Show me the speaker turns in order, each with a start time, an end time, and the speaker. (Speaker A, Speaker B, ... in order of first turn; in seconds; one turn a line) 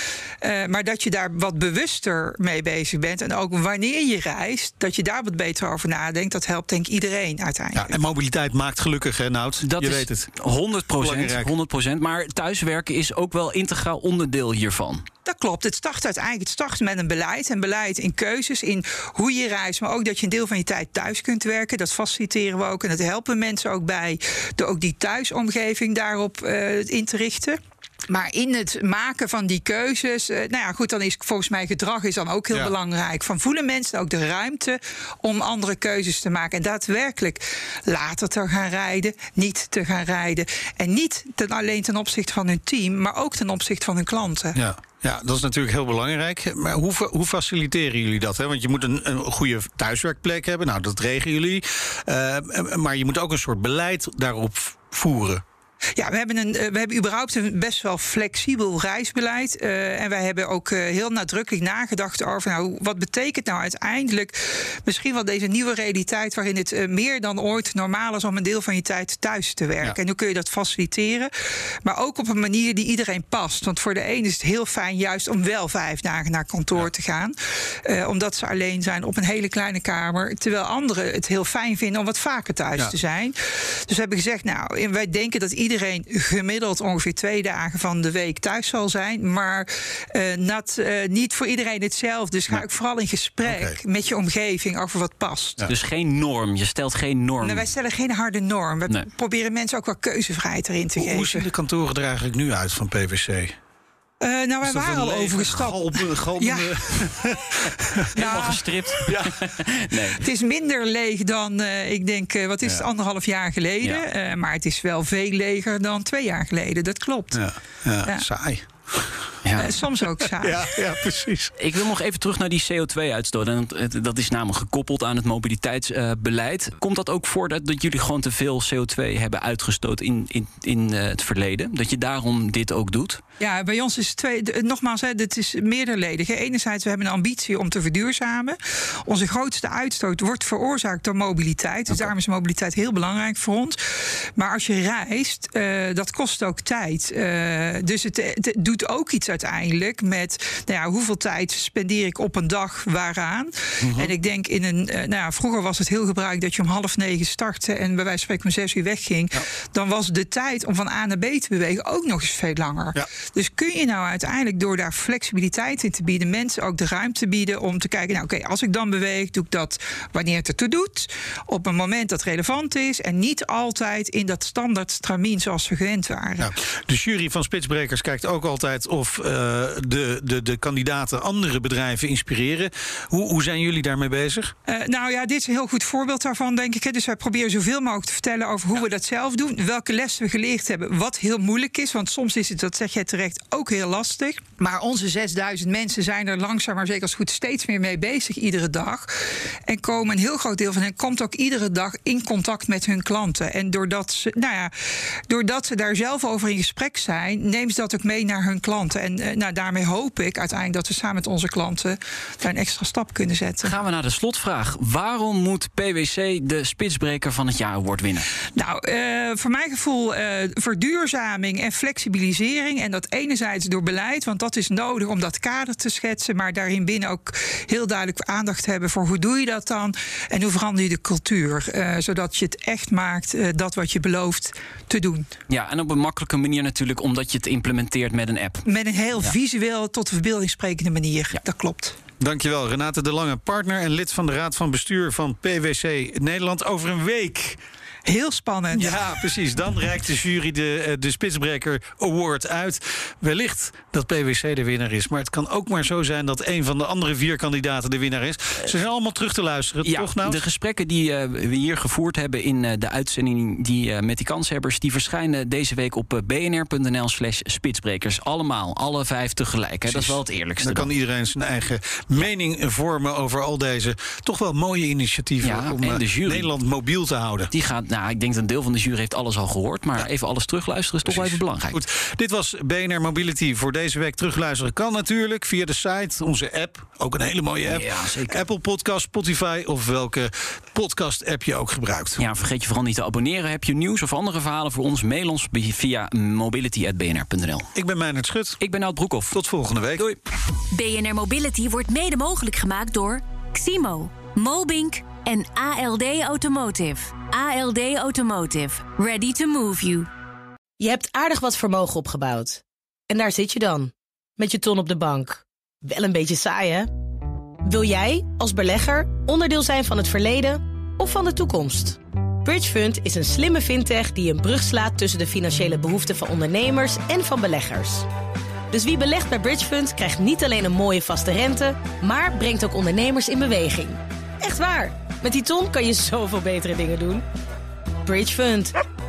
Speaker A: 0.4-7.9
Speaker B: 7.7-10.3
Speaker C: 9.6-15.1
Speaker B: 11.0-11.5
Speaker A: 15.3-27.6
Speaker A: 28.1-44.6
Speaker B: 44.5-55.4
Speaker A: 56.0-71.3
Speaker A: 71.8-95.7
Speaker B: 93.4-93.8
Speaker C: 95.7-97.7
Speaker A: 97.4-101.5
Speaker B: 101.0-103.6
Speaker A: 104.2-107.0
Speaker B: 104.6-108.5
Speaker C: 108.1-110.2
Speaker A: 108.2-108.6
Speaker B: 109.1-109.4
Speaker A: 110.2-117.5
Speaker B: 117.3-119.4
Speaker C: 119.4-119.8
Speaker A: 119.6-120.7
Speaker B: 120.2-121.5
Speaker C: 121.6-133.2
Speaker A: 133.4-143.8
Speaker A: 144.4-176.5
Speaker B: 153.8-154.2
Speaker B: 176.4-184.5
Speaker A: 184.7-199.2
Speaker A: 199.7-204.7
Speaker A: 205.3-213.8
Speaker C: 213.6-218.3
Speaker A: 218.6-235.3
Speaker C: 235.5-238.7
Speaker A: 238.7-242.0
Speaker B: 242.2-247.6
Speaker A: 248.1-249.1
Speaker B: 248.7-260.4
Speaker C: 259.8-270.9
Speaker B: 269.9-277.5
Speaker C: 275.4-276.5
Speaker C: 277.5-281.8
Speaker B: 281.1-292.2
Speaker C: 287.7-288.4
Speaker C: 292.2-297.7
Speaker B: 297.8-298.6
Speaker C: 298.6-299.4
Speaker B: 299.3-300.1
Speaker D: 300.7-310.1
Speaker E: 310.8-316.9
Speaker E: 317.6-328.1
Speaker E: 328.7-337.2
Speaker E: 338.1-338.7